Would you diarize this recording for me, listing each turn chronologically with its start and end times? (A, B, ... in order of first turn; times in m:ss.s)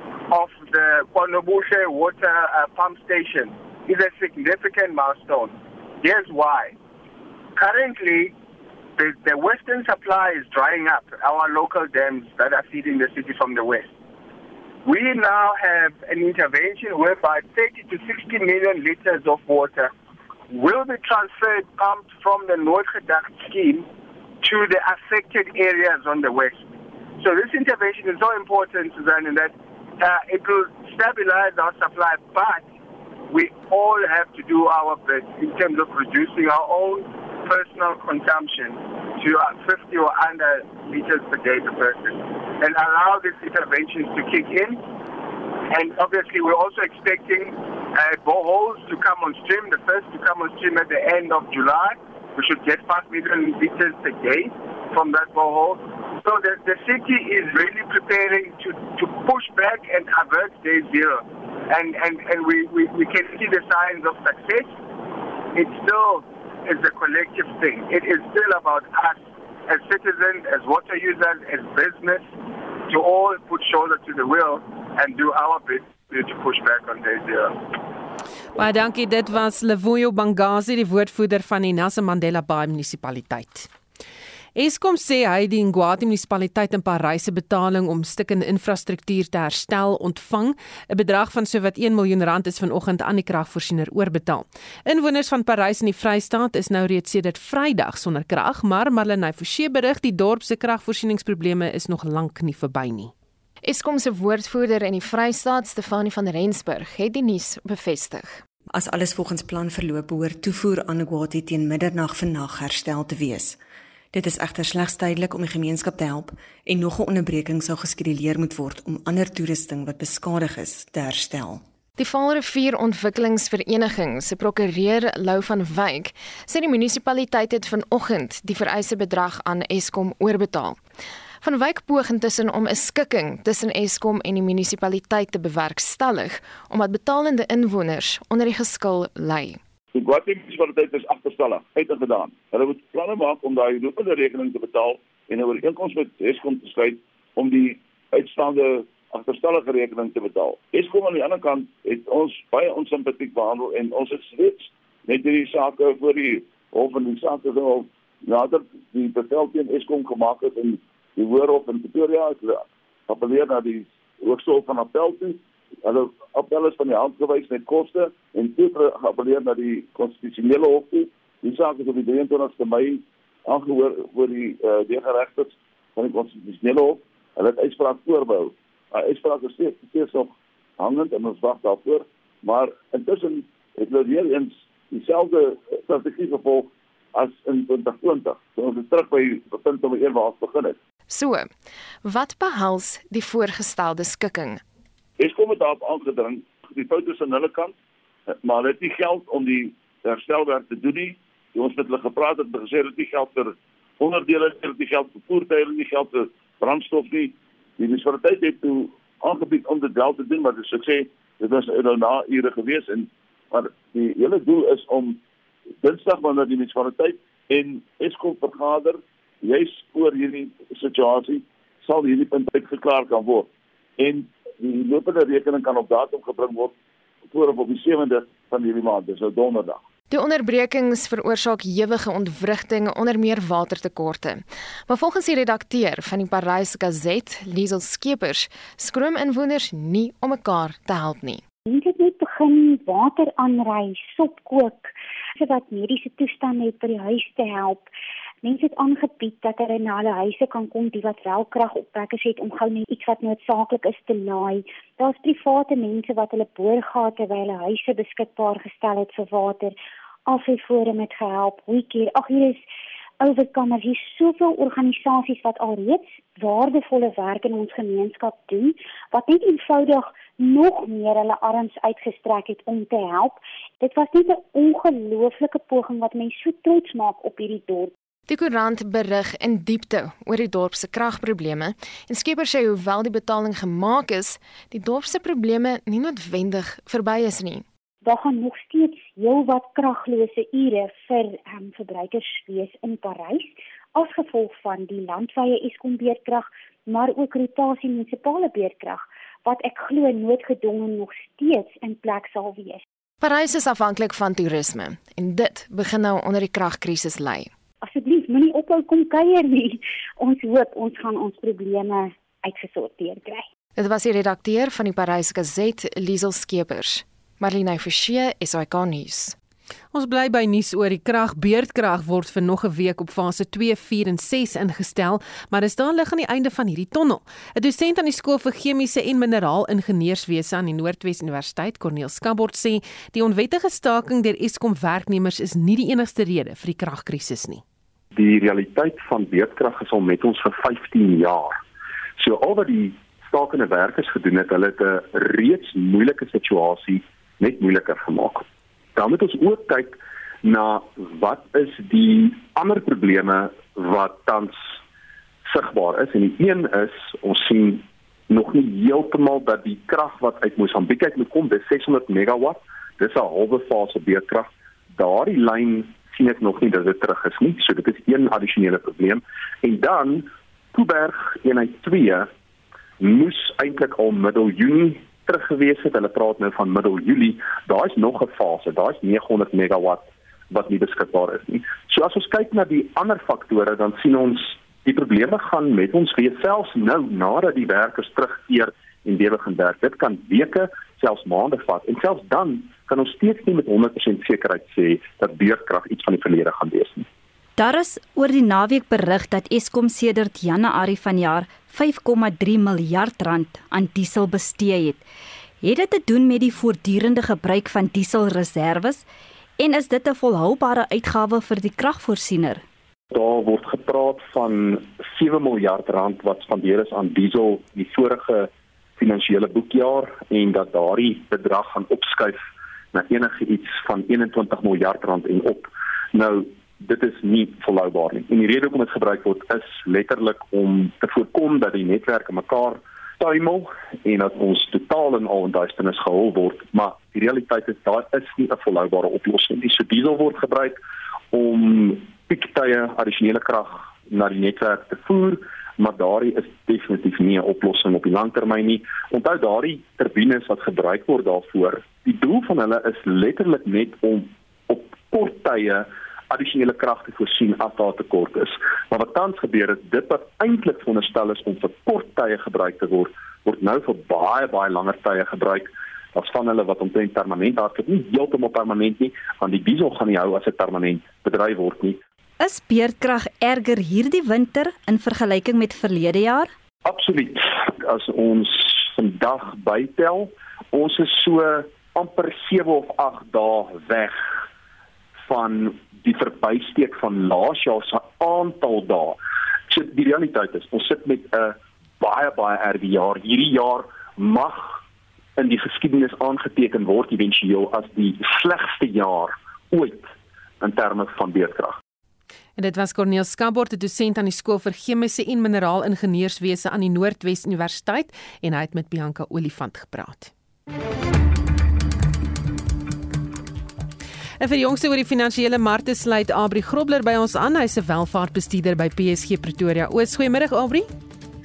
0:00.3-0:06.8 A
0:07.6-0:08.3 A
0:09.0-0:13.9 A
0:14.8-0:19.9 A
0:20.5-0:23.9 A
0:24.4-0:26.6 A
0:27.2-0:32.6 A
0:33.3-0:44.8 A
0:45.7-1:04.8 A
1:05.5-1:12.3 A
1:12.9-1:17.6 A
1:18.6-1:23.7 B
1:24.6-1:43.1 B
1:43.6-1:48.4 C
1:48.7-1:53.6 D
1:54.1-2:01.6 D
2:02.0-2:10.8 C
2:11.4-2:19.6 C
2:20.0-3:10.8 E
3:11.1-3:11.5 C
3:12.0-3:14.6 C
3:15.2-3:17.7 E
3:18.4-3:35.2 E
3:35.8-3:46.7 E
3:47.3-3:49.8 E
3:50.1-4:01.4 C
4:01.7-4:07.9 F
4:08.4-4:19.7 F
4:20.3-4:22.6 F
4:23.2-4:37.9 F
4:38.3-4:47.6 C
4:48.0-5:02.8 F
5:03.2-5:07.5 C
5:07.8-5:13.5 F
5:13.8-5:19.4 C
5:19.9-5:37.6 B
5:38.1-5:41.6 G
5:42.2-5:54.8 G
5:55.4-6:12.3 G
6:13.0-6:37.1 G
6:37.6-6:45.0 H
6:45.6-6:49.0 H
6:49.6-6:52.6 H
6:53.1-7:20.8 G
7:21.3-7:52.0 G
7:52.4-7:56.5 H
7:56.8-8:04.2 G
8:05.2-8:09.2 G
8:09.7-8:14.8 G
8:15.4-8:21.8 G
8:22.6-8:30.3 B
8:34.4-8:40.9 B